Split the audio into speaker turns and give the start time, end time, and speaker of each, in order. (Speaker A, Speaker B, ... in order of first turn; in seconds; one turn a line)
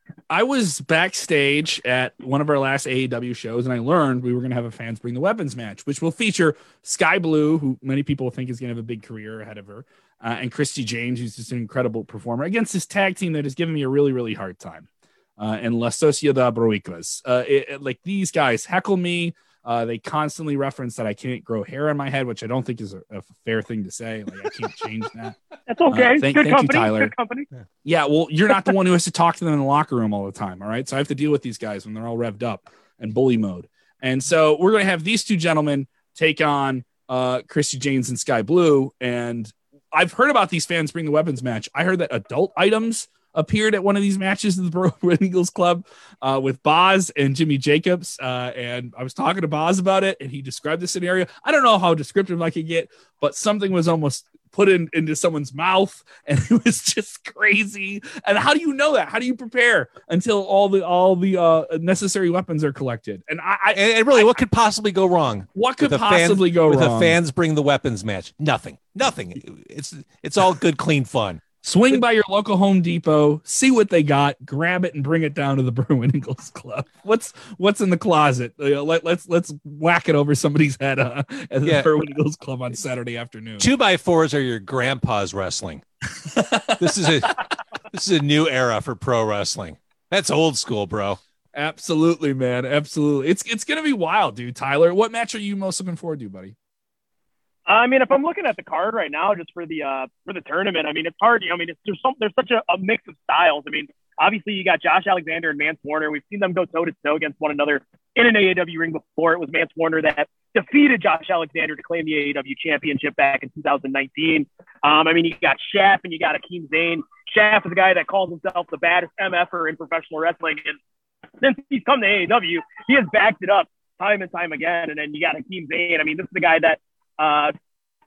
Speaker A: 0.3-25.4
Speaker B: 25.7-27.5
Speaker A: 25.9-27.1
Speaker A: 27.8-64.3
Speaker C: 63.7-71.4
Speaker A: 65.5-67.2
Speaker A: 71.6-83.7
Speaker C: 81.6-81.9
Speaker C: 83.6-85.8
Speaker A: 86.2-87.4
Speaker C: 86.8-87.4
Speaker C: 87.9-91.2
Speaker A: 91.5-96.5
Speaker B: 97.7-120.8
Speaker B: 121.4-127.5